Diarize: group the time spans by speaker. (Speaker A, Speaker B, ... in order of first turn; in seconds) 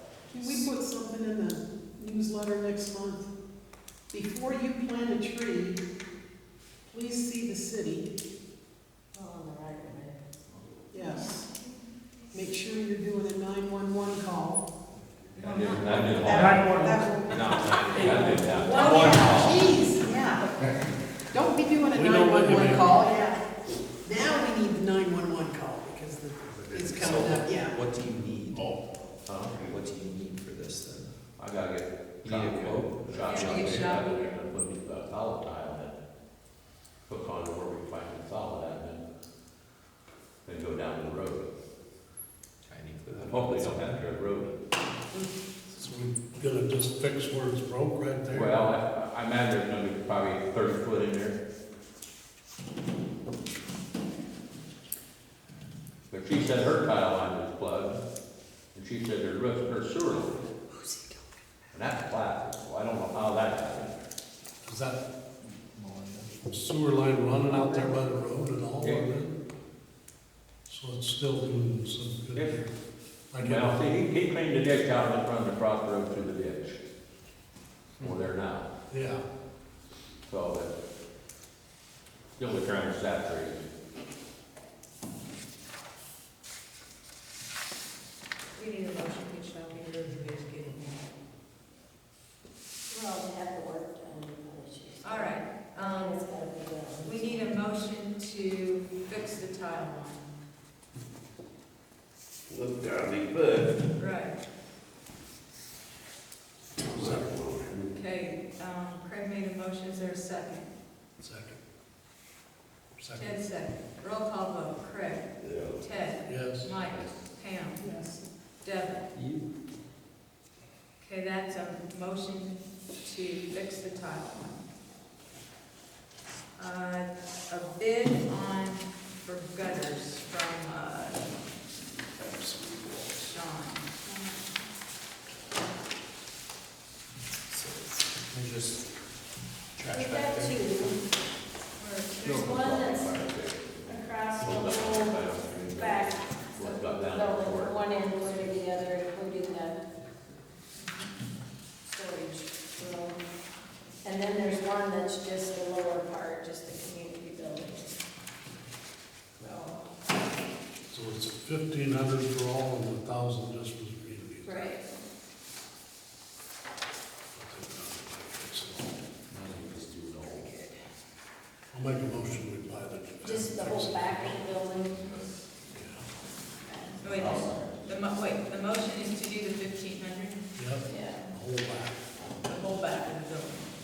Speaker A: 0.3-3.3, 4.1-5.8, 6.9-8.1, 10.9-11.5, 12.3-14.7, 16.1-20.5, 21.3-23.4, 24.0-27.8, 117.8-118.2
Speaker B: 9.1-10.2, 11.0-11.3, 18.0-19.6, 92.9-97.5, 134.1-134.4, 139.9-141.0, 142.3-143.2, 143.9-149.8, 151.9-153.2, 154.0-158.0, 159.4-159.8, 164.4-164.9, 173.2-175.3, 176.6-177.7, 180.9-181.3
Speaker C: 15.4-16.5, 17.3-19.0, 33.2-34.3, 88.6-91.0, 95.0-96.3, 97.0-100.2, 104.0-104.4, 107.9-110.7, 113.2-117.9, 118.6-119.1, 121.0-124.6, 126.6-131.3, 132.4-133.9, 141.8-142.4, 170.3-170.8, 177.0-180.4, 182.4-183.7
Speaker D: 15.4-16.7, 17.3-19.7, 29.2-29.6, 31.4-35.9, 37.1-39.0, 40.5-41.5, 43.1-44.6, 48.3-51.4, 56.1-58.0, 58.7-60.5, 61.7-64.0, 73.4-76.8, 78.0-78.7, 80.3-80.7, 82.4-83.7, 142.2-147.8, 169.3-170.5, 177.2-177.6
Speaker E: 21.9-22.9, 45.7-48.6, 64.6-65.0, 66.4-69.4, 70.7-72.7, 73.3-73.8, 78.9-79.2, 106.9-107.6, 111.2-111.6, 113.0-113.4, 116.3-116.7, 160.9-164.7, 167.3-169.1, 171.7-174.4, 175.7-176.1, 180.6-182.1
Speaker F: 27.0-28.7, 29.5-31.1, 32.3-33.6, 42.7-44.1, 119.2-119.5, 137.5-138.8, 139.8-140.7
Speaker G: 33.2-33.8, 102.5-103.8, 107.0-107.9, 115.4-115.8